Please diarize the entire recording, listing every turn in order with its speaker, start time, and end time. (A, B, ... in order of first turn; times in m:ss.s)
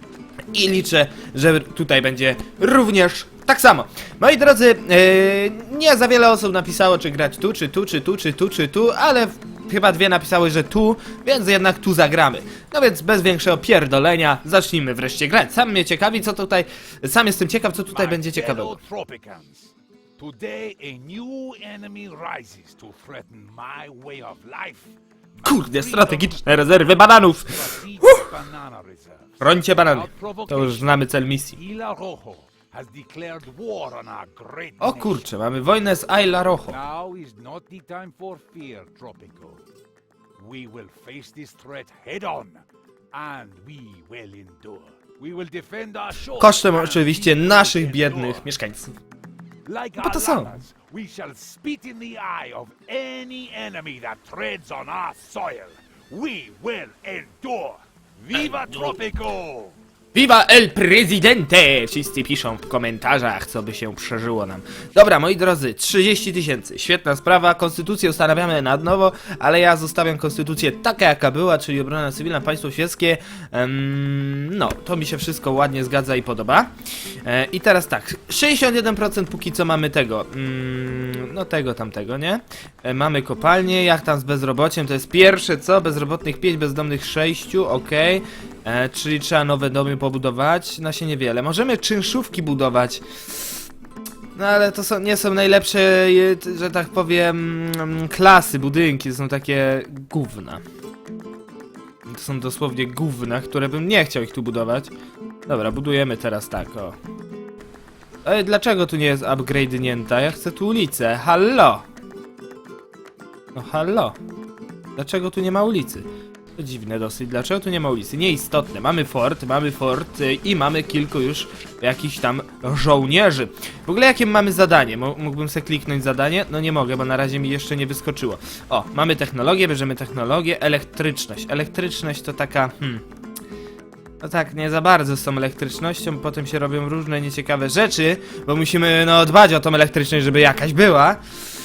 0:00.5-0:18.8 A
0:17.9-0:35.3 B
0:25.4-0:28.3 A
0:29.4-0:31.6 A
0:34.8-0:36.8 A
0:36.7-0:39.6 B
0:40.4-0:48.5 B
0:46.4-0:49.0 A
0:49.6-0:59.8 B
0:50.0-0:50.6 A
0:58.3-0:59.0 A
1:00.1-1:16.7 A
1:17.2-1:33.6 A
1:34.4-1:40.6 A
1:42.1-1:44.9 A
1:45.5-1:47.0 A
1:48.2-1:51.8 A
1:53.5-1:54.2 A
1:55.0-2:13.0 A
2:14.2-2:21.3 A